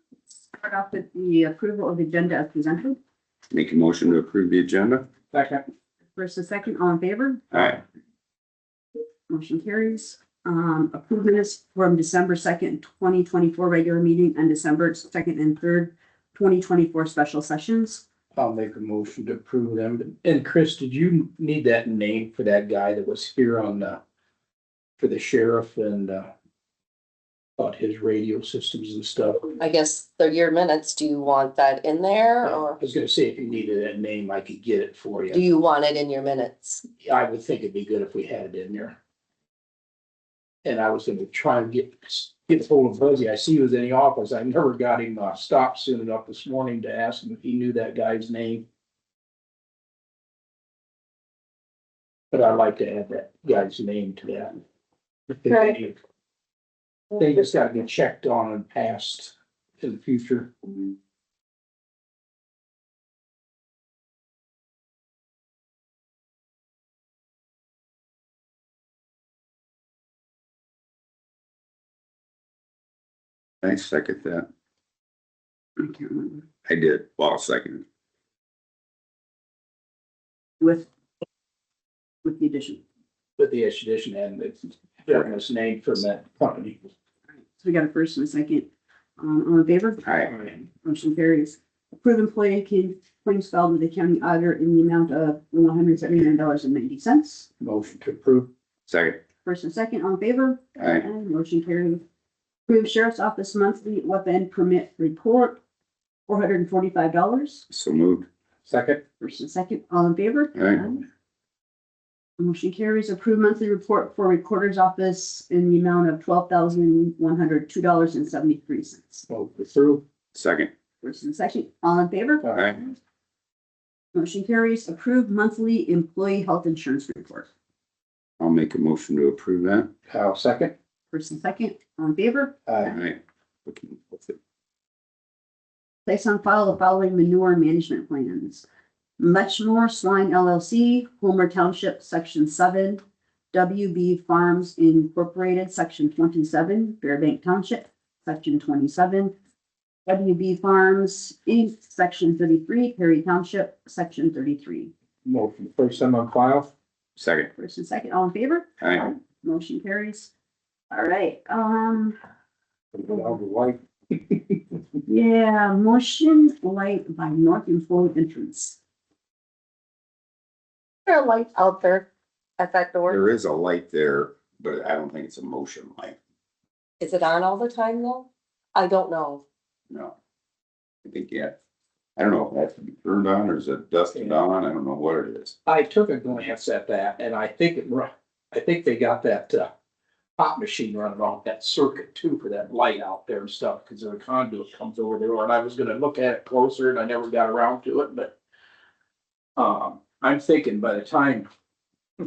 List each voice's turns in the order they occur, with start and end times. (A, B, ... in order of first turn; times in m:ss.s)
0:00.6-0:03.0 A
0:03.5-0:05.1 B
0:05.3-0:05.6 C
0:06.2-0:07.4 A
0:07.5-0:07.8 B
0:09.3-0:18.0 A
0:18.4-0:24.0 C
0:25.0-0:26.3 C
0:27.6-0:29.5 C
0:29.6-0:32.8 D
0:32.5-0:35.4 C
0:35.3-0:36.8 D
0:37.0-0:39.0 C
0:40.6-0:48.7 C
0:52.3-0:54.6 C
0:55.3-0:56.0 C
0:55.5-0:55.8 D
0:57.2-1:00.9 C
1:13.6-1:14.5 B
1:15.8-1:16.5 A
1:16.7-1:17.8 B
1:20.6-1:20.9 A
1:22.2-1:22.8 A
1:23.4-1:26.8 C
1:27.6-1:28.7 A
1:29.2-1:30.1 A
1:30.0-1:30.4 B
1:30.6-1:37.5 A
1:37.6-1:38.5 C
1:38.9-1:39.2 B
1:39.4-1:42.0 A
1:40.8-1:41.1 B
1:42.7-1:45.6 A
1:46.3-1:47.6 A
1:47.7-1:48.3 B
1:48.7-1:49.0 C
1:49.2-1:51.0 A
1:50.6-1:50.9 B
1:52.4-1:59.3 A
1:59.3-2:00.0 C
2:00.4-2:00.7 B
2:01.0-2:03.0 A
2:02.4-2:02.7 C
2:04.1-2:07.5 A
2:08.4-2:09.9 B
2:10.1-2:10.7 C
2:11.1-2:12.6 A
2:12.7-2:13.0 C
2:12.8-2:14.4 B
2:16.0-2:18.6 A
2:19.2-2:29.3 A
2:30.1-2:34.9 A
2:35.2-2:36.7 C
2:37.2-2:37.5 B
2:37.6-2:40.3 A
2:38.8-2:39.1 B
2:40.9-2:42.2 A
2:42.9-2:44.6 C
2:45.1-2:48.8 A
2:51.1-2:52.1 D
2:52.6-2:53.2 D
2:53.1-2:56.2 B
2:57.0-2:59.4 D
2:59.9-3:00.2 B
3:01.0-3:01.6 B
3:02.2-3:05.6 B
3:04.1-3:04.4 C
3:05.7-3:09.7 C
3:10.4-3:18.3 C
3:19.6-3:21.5 C